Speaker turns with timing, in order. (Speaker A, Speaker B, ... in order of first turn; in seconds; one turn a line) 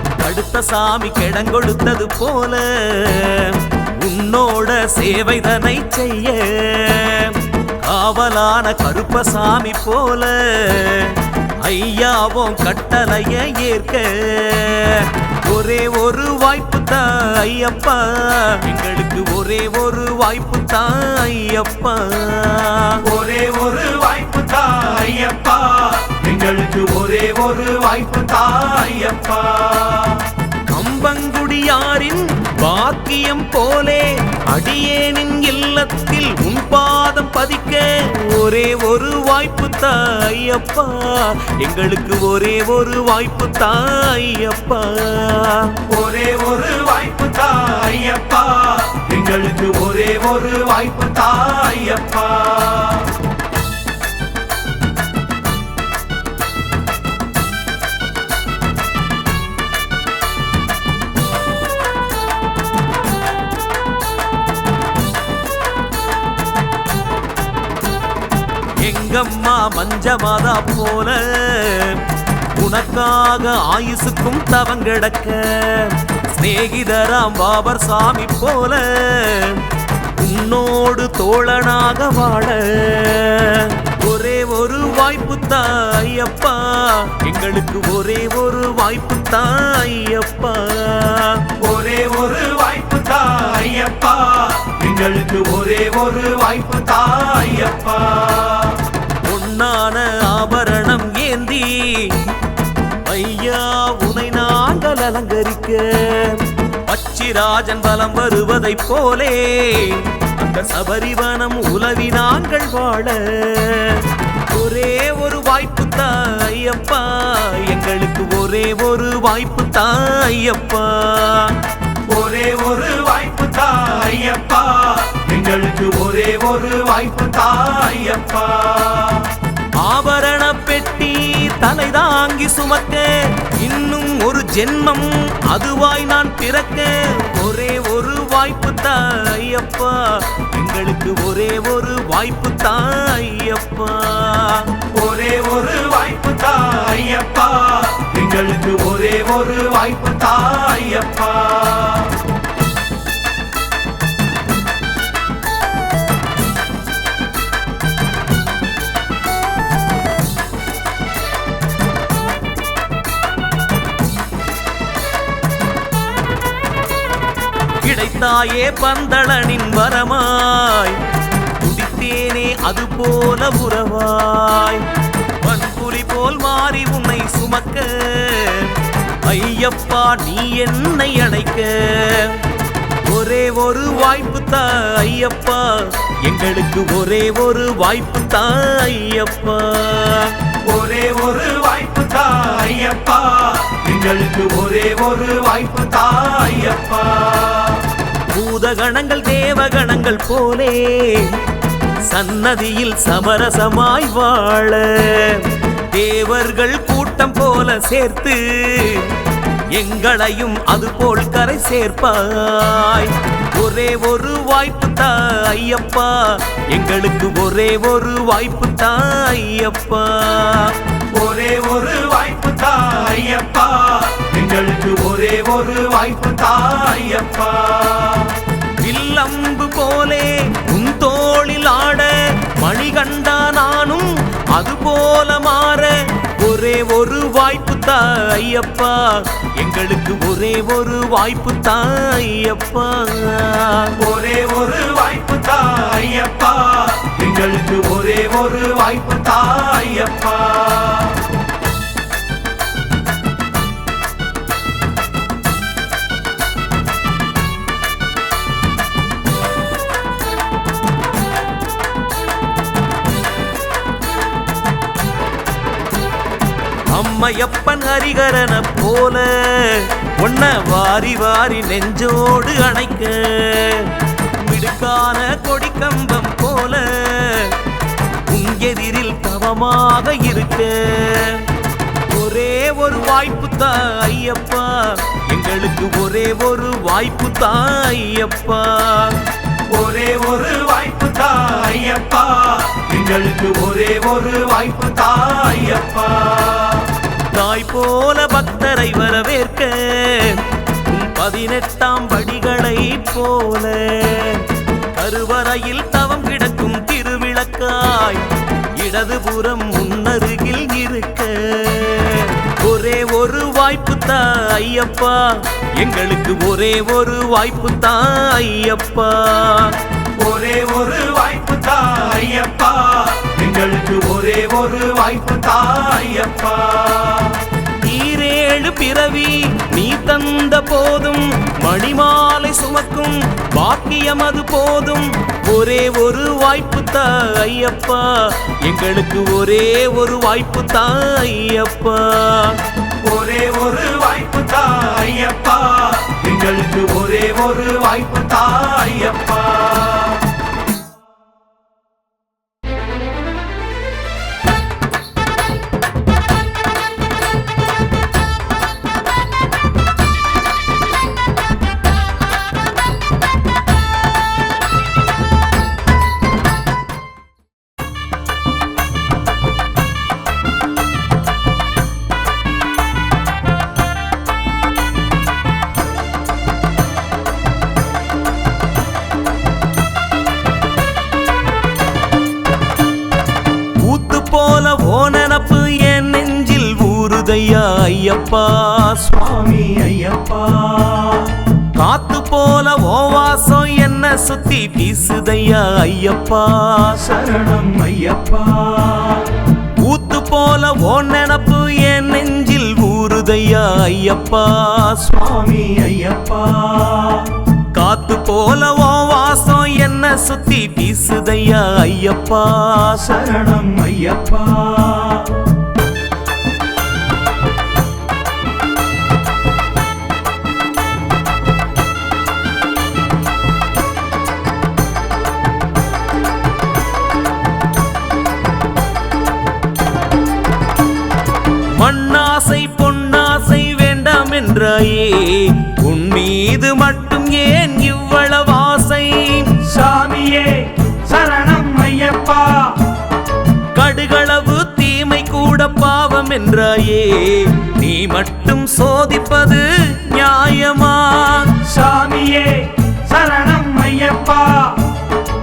Speaker A: 0.1-23.0
Speaker B: 23.0-30.2
Speaker A: 30.7-45.8
Speaker B: 45.9-53.1
Speaker A: 68.8-72.0
Speaker A: 72.6-79.6
Speaker A: 80.2-91.5
Speaker B: 91.6-98.8
Speaker A: 99.2-102.2
Speaker A: 103.0-121.6
Speaker B: 122.1-129.3
Speaker A: 129.8-144.7
Speaker B: 144.9-152.1
Speaker A: 167.8-171.0
Speaker A: 171.6-174.9
Speaker A: 175.4-182.4
Speaker A: 183.0-190.3
Speaker B: 190.6-197.8
Speaker A: 198.3-201.4
Speaker A: 202.1-209.1
Speaker A: 209.7-220.8
Speaker B: 221.1-228.4
Speaker A: 228.8-243.9
Speaker B: 244.0-251.2
Speaker A: 266.9-277.6
Speaker A: 278.3-281.5
Speaker A: 282.1-289.2
Speaker B: 289.7-296.9
Speaker A: 297.3-319.8
Speaker B: 320.1-327.4
Speaker A: 327.8-342.6
Speaker B: 343.0-350.2
Speaker A: 383.8-389.1
Speaker B: 389.1-391.4
Speaker A: 391.7-397.0
Speaker B: 396.9-399.3
Speaker A: 399.8-405.1
Speaker B: 405.0-407.4
Speaker A: 407.7-413.1
Speaker B: 413.0-415.4
Speaker A: 431.8-439.6
Speaker B: 439.6-442.9
Speaker A: 443.7-451.6
Speaker B: 451.6-454.9